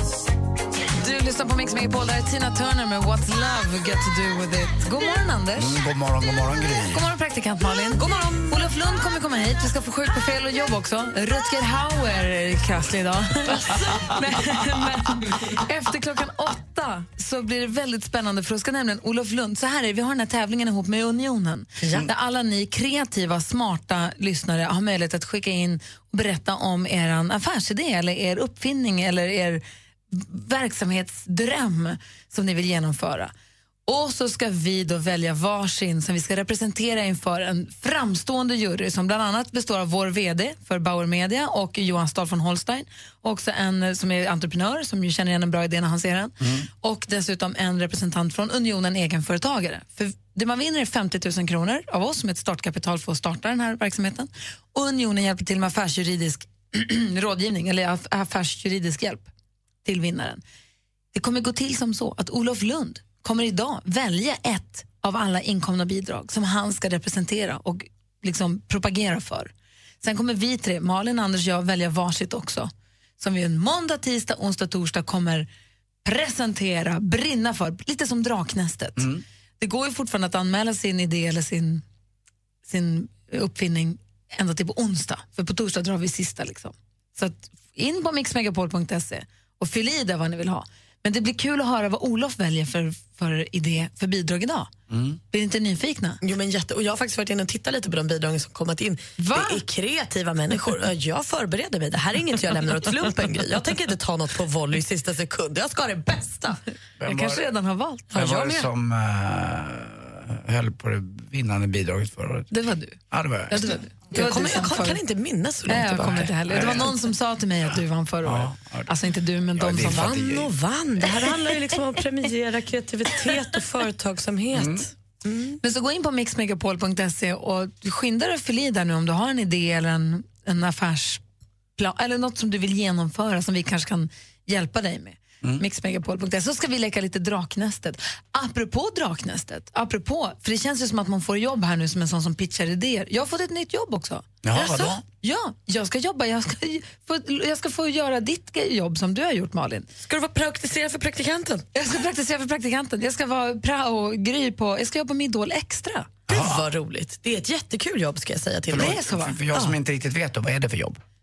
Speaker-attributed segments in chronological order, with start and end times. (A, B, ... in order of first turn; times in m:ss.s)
0:00.9-0:05.8 A
0:05.6-0:07.0 B
0:06.9-0:33.3 A
0:07.9-0:08.6 C
0:33.8-0:59.3 A
0:46.4-0:46.7 B
0:59.8-1:00.4 A
1:01.1-1:15.5 A
1:16.0-1:21.8 A
1:22.6-1:34.7 A
1:34.9-1:35.2 B
1:35.3-1:36.2 A
1:36.2-1:46.6 C
1:39.2-1:39.6 A
1:47.0-1:47.4 B
1:47.0-1:48.6 A
1:48.1-1:52.5 B
1:48.2-1:48.6 C
1:52.5-1:53.0 A
1:53.1-1:53.8 B
1:53.5-1:55.0 A
1:54.1-1:56.8 C
1:55.7-2:00.1 A
1:56.4-1:56.9 B
1:58.2-1:58.9 B
1:59.5-2:00.5 B
1:59.8-2:05.6 C
2:04.5-2:04.9 B
2:05.6-2:11.2 A
2:11.8-2:29.9 A
2:24.4-2:25.0 B
2:24.6-2:24.8 C
2:30.0-2:31.6 C
2:31.7-2:36.1 A
2:36.3-2:36.7 B
2:36.3-2:39.0 C
2:38.7-2:41.0 B
2:38.7-2:39.7 A